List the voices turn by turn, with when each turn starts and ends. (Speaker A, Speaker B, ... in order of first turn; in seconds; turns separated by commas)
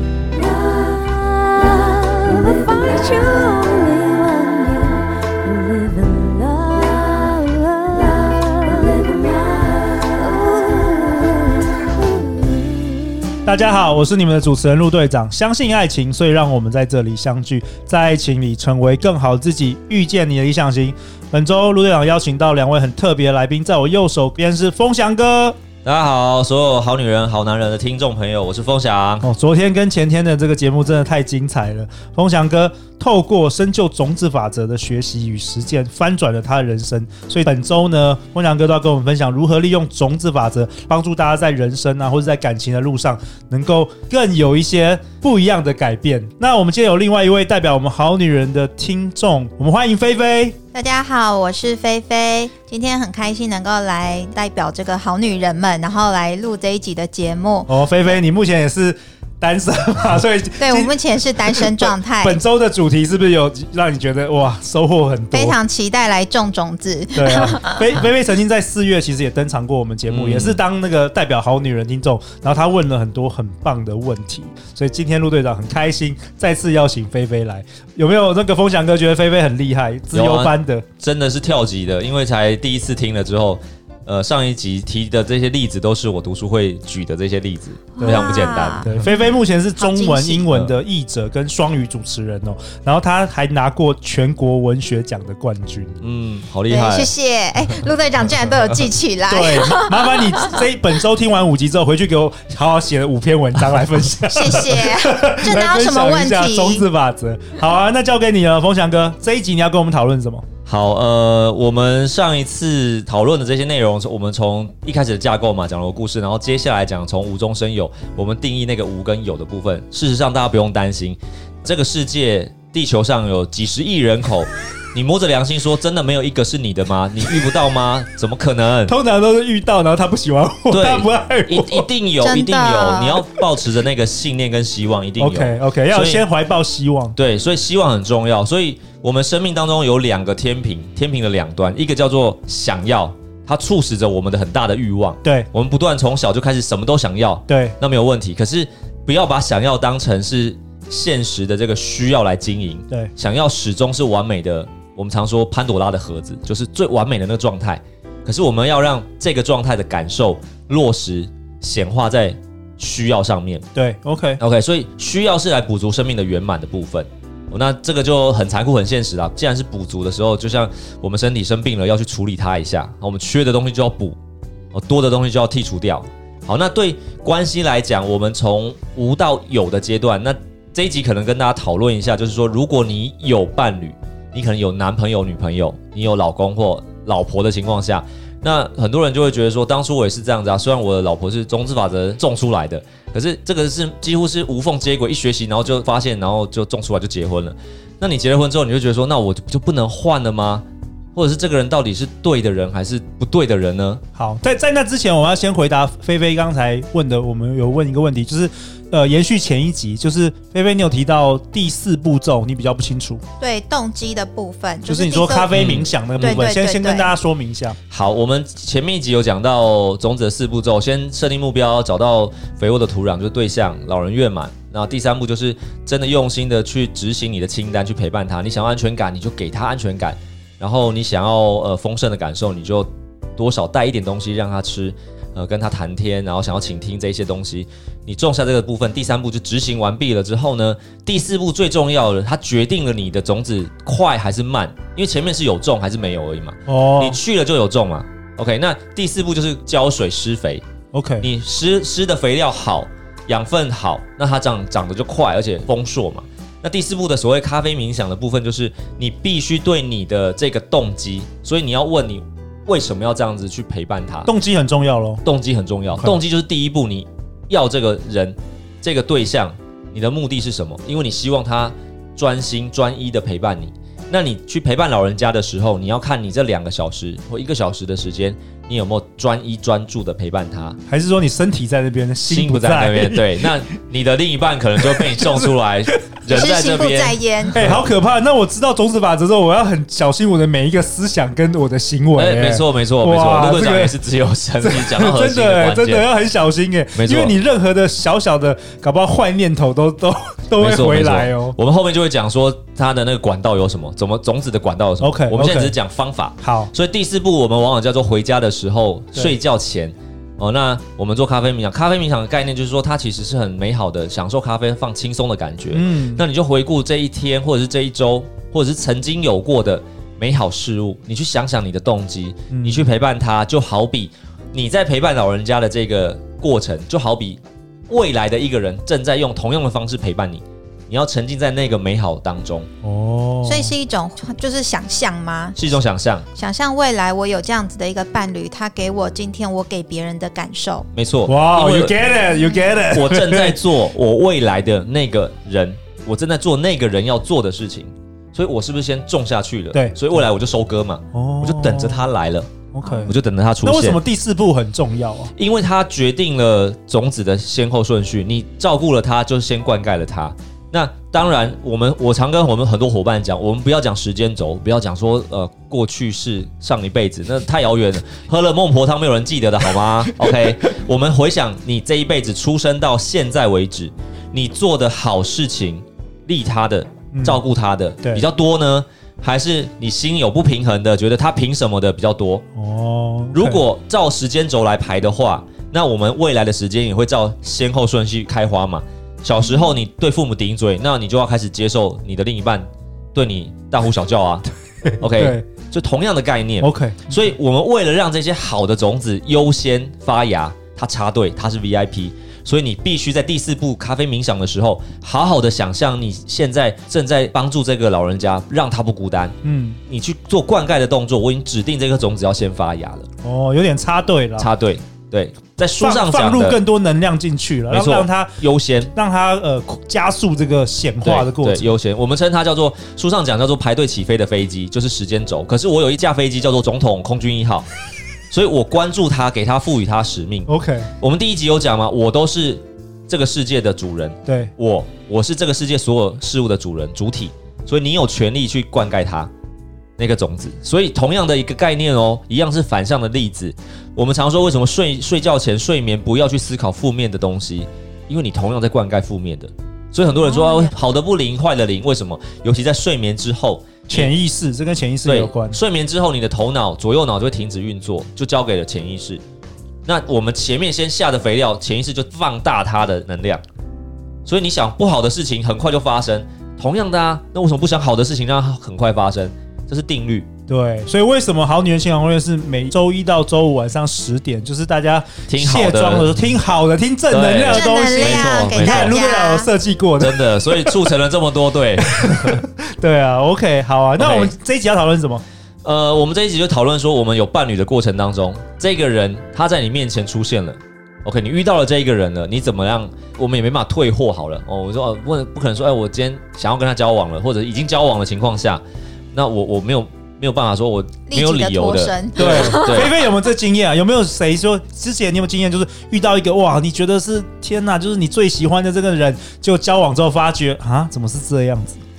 Speaker A: 0.3-13.5, Speaker B: 13.4-25.6, Speaker C: 25.8-29.3, Speaker B: 29.2-50.6, Speaker D: 50.7-57.7, Speaker B: 57.7-65.6, Speaker D: 60.6-62.4, Speaker D: 65.3-67.9, Speaker B: 67.2-80.8, Speaker C: 70.1-70.6, Speaker C: 80.1-89.0, Speaker D: 88.0-90.5, Speaker B: 88.0-96.0, Speaker C: 96.0-97.1, Speaker D: 96.7-100.6, Speaker B: 99.3-110.5, Speaker D: 104.3-106.8, Speaker C: 110.7-128.9, Speaker B: 128.9-131.9, Speaker C: 130.7-136.2, Speaker D: 132.2-133.2, Speaker B: 135.2-137.2, Speaker C: 137.2-163.7, Speaker B: 147.5-147.8, Speaker B: 163.8-164.4, Speaker C: 164.4-174.2, Speaker C: 174.7-204.0, Speaker B: 204.2-213.2, Speaker D: 213.4-215.5, Speaker B: 214.9-217.8, Speaker C: 215.5-216.4, Speaker D: 216.2-217.1, Speaker C: 217.9-250.6, Speaker B: 246.7-247.2, Speaker B: 250.9-251.3, Speaker C: 251.2-264.3, Speaker B: 264.3-265.2, Speaker C: 265.2-280.8, Speaker B: 280.9-283.5, Speaker C: 282.3-287.8, Speaker B: 285.0-285.4, Speaker D: 286.3-287.6, Speaker B: 287.5-294.0, Speaker C: 292.2-296.1, Speaker B: 294.6-301.6, Speaker C: 296.9-297.4, Speaker C: 300.6-332.7, Speaker B: 305.0-305.7, Speaker B: 306.4-306.7, Speaker B: 315.7-316.2, Speaker B: 322.5-322.9, Speaker B: 332.8-333.7, Speaker D: 333.4-335.6, Speaker C: 335.6-336.3, Speaker D: 336.4-340.9, Speaker C: 340.9-342.0, Speaker B: 341.3-343.6, Speaker C: 342.9-352.5, Speaker B: 349.7-350.0, Speaker B: 351.1-352.1, Speaker B: 352.7-355.3, Speaker C: 353.1-354.0, Speaker C: 355.4-382.4, Speaker B: 377.1-377.4, Speaker B: 382.6-383.6, Speaker C: 383.3-394.4, Speaker B: 394.9-395.4, Speaker C: 395.0-409.4, Speaker B: 396.6-397.2, Speaker B: 409.4-409.8, Speaker C: 409.9-413.1, Speaker B: 413.2-414.5, Speaker C: 414.4-416.6, Speaker B: 415.8-418.4, Speaker C: 417.7-418.9, Speaker B: 418.9-421.7, Speaker C: 421.0-427.7, Speaker C: 428.3-430.5, Speaker B: 430.5-430.9, Speaker C: 431.0-439.3, Speaker B: 434.3-434.5, Speaker C: 440.0-454.1, Speaker D: 450.2-450.7, Speaker B: 453.9-455.6, Speaker C: 455.1-459.2, Speaker C: 459.9-463.4, Speaker C: 464.2-470.3, Speaker B: 470.5-480.8, Speaker C: 475.3-476.1, Speaker C: 477.1-479.0, Speaker D: 477.5-479.5, Speaker C: 480.0-482.4, Speaker B: 481.9-485.2, Speaker C: 484.0-484.3, Speaker C: 485.6-498.6, Speaker C: 499.1-503.0, Speaker D: 501.1-502.9, Speaker B: 502.2-511.8